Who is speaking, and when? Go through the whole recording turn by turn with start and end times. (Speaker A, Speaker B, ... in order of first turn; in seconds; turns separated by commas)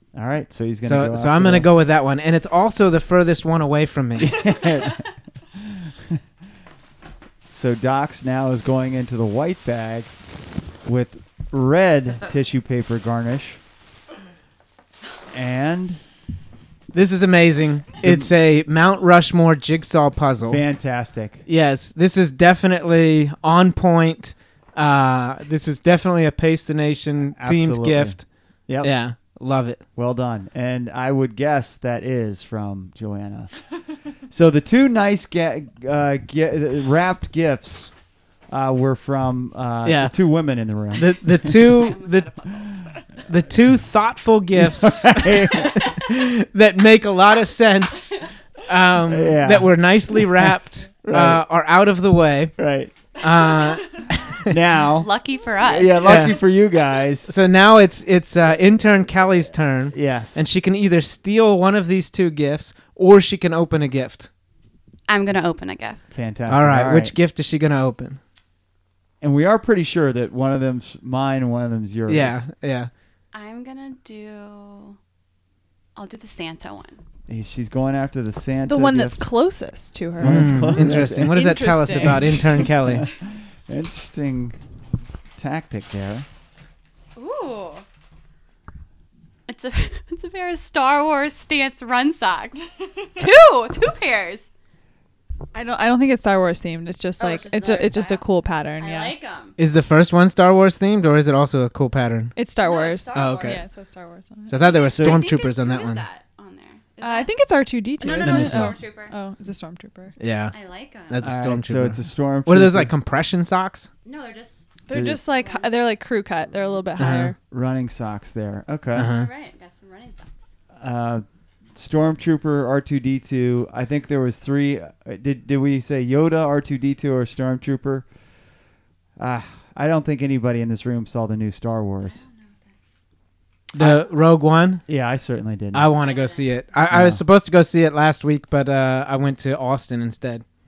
Speaker A: 0.1-1.7, Speaker B: 0.8-4.4, Speaker A: 4.2-6.2, Speaker A: 7.5-10.1, Speaker A: 10.8-13.6, Speaker A: 15.3-16.0, Speaker B: 16.9-20.6, Speaker A: 18.0-18.3, Speaker A: 20.5-21.4, Speaker B: 21.5-28.2, Speaker A: 27.4-28.2, Speaker B: 28.8-29.8, Speaker A: 29.9-33.5, Speaker A: 34.3-37.9, Speaker A: 38.5-41.7, Speaker B: 39.8-40.1, Speaker B: 40.9-42.3, Speaker C: 41.6-42.8, Speaker B: 43.3-52.5, Speaker A: 44.5-45.9, Speaker A: 49.1-50.5, Speaker A: 51.1-51.4, Speaker A: 52.6-52.9, Speaker B: 53.2-54.5, Speaker A: 54.5-55.1, Speaker C: 55.0-56.1, Speaker A: 55.6-57.3, Speaker B: 56.0-56.4, Speaker B: 57.3-64.3, Speaker A: 59.9-60.5, Speaker C: 65.1-66.0, Speaker A: 66.1-67.1, Speaker B: 66.5-68.2, Speaker A: 69.2-72.4, Speaker B: 72.1-72.9, Speaker C: 73.3-75.0, Speaker C: 76.0-77.0, Speaker A: 77.3-79.2, Speaker D: 78.7-82.5, Speaker A: 80.2-81.4, Speaker B: 80.2-83.0, Speaker A: 82.0-84.6, Speaker A: 85.4-86.2, Speaker C: 87.2-87.8, Speaker C: 89.5-94.5, Speaker D: 95.5-99.2, Speaker C: 97.2-98.2, Speaker C: 98.8-99.5, Speaker B: 99.6-102.3, Speaker D: 102.3-104.6, Speaker C: 102.6-103.6, Speaker B: 103.1-103.6, Speaker B: 104.5-106.0, Speaker C: 104.5-107.3, Speaker A: 104.9-105.2, Speaker D: 107.0-110.1, Speaker C: 108.0-109.1, Speaker B: 108.2-108.7, Speaker B: 110.2-110.5, Speaker C: 110.5-111.3, Speaker B: 111.1-113.9, Speaker A: 111.2-112.9, Speaker C: 114.0-114.7, Speaker D: 114.9-117.3, Speaker A: 114.9-115.2, Speaker C: 115.3-115.8, Speaker B: 117.0-117.3, Speaker A: 117.5-119.1, Speaker B: 118.9-119.3, Speaker C: 119.1-120.3, Speaker A: 120.8-121.2, Speaker A: 121.7-128.1, Speaker A: 129.2-132.2, Speaker C: 132.0-132.8, Speaker B: 133.7-134.8, Speaker A: 133.8-134.1, Speaker A: 134.9-135.9, Speaker B: 135.7-140.4, Speaker C: 136.0-136.6, Speaker A: 136.9-137.2